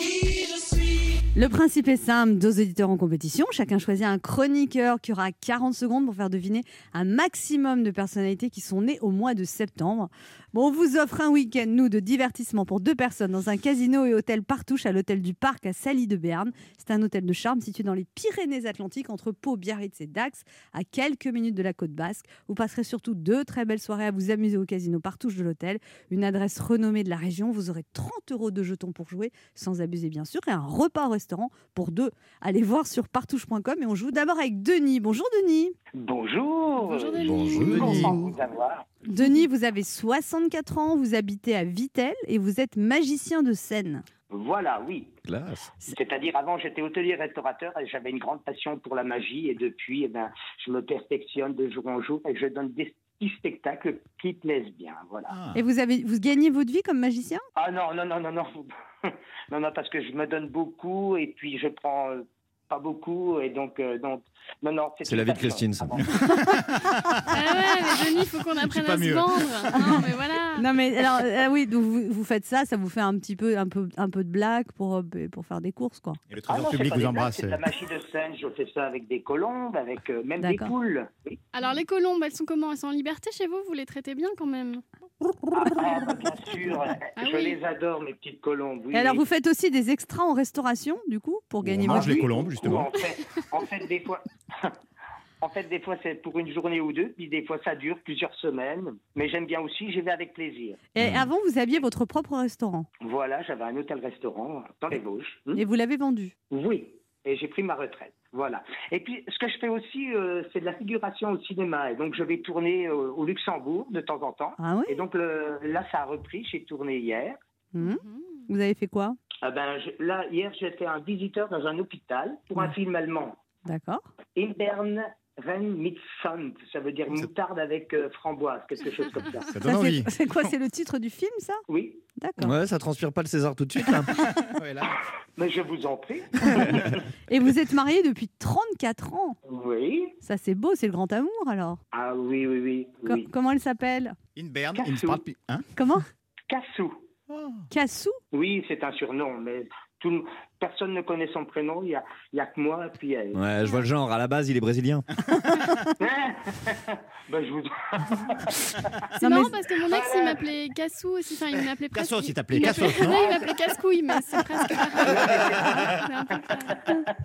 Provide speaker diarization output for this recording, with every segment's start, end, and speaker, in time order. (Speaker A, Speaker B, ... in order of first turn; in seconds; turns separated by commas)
Speaker A: 1.4-35.8, Speaker B: 36.0-38.9, Speaker C: 36.8-38.1, Speaker D: 37.4-38.3, Speaker E: 37.5-38.1, Speaker A: 39.1-44.0, Speaker B: 44.3-45.2, Speaker E: 45.3-45.7, Speaker B: 45.9-55.4, Speaker D: 55.3-55.6, Speaker A: 55.5-57.4, Speaker B: 57.6-66.3, Speaker E: 65.0-66.1, Speaker D: 66.2-67.4, Speaker C: 67.3-70.7, Speaker D: 68.6-69.8, Speaker A: 70.6-76.2, Speaker D: 76.3-77.6, Speaker B: 76.5-81.4, Speaker A: 80.4-80.7, Speaker C: 81.5-84.8, Speaker B: 85.5-89.2, Speaker C: 87.2-87.6, Speaker A: 88.9-92.3, Speaker D: 91.6-93.0, Speaker B: 91.8-94.8, Speaker B: 95.4-100.8, Speaker A: 100.9-102.9, Speaker B: 103.0-105.6, Speaker A: 105.5-106.3, Speaker B: 106.5-117.4, Speaker A: 114.6-114.9, Speaker A: 117.7-119.2, Speaker C: 117.8-118.4, Speaker B: 119.4-123.4, Speaker A: 123.7-124.1, Speaker B: 124.4-129.6, Speaker D: 129.5-130.1, Speaker A: 129.6-131.6, Speaker B: 131.7-132.0, Speaker A: 132.2-132.6, Speaker E: 132.4-134.4, Speaker D: 134.2-135.0, Speaker B: 135.4-137.0, Speaker A: 137.3-139.4, Speaker B: 139.5-140.2, Speaker A: 140.2-141.8, Speaker B: 141.9-143.3, Speaker A: 143.0-144.2, Speaker D: 144.4-145.7, Speaker B: 144.8-145.2, Speaker A: 145.8-146.1, Speaker B: 146.5-147.0, Speaker D: 147.3-147.7, Speaker A: 147.7-148.2, Speaker B: 148.3-153.4, Speaker E: 153.3-155.1, Speaker B: 156.0-159.1, Speaker C: 159.2-166.8, Speaker A: 159.2-159.5, Speaker B: 159.8-160.4, Speaker D: 161.9-163.4, Speaker B: 165.0-166.5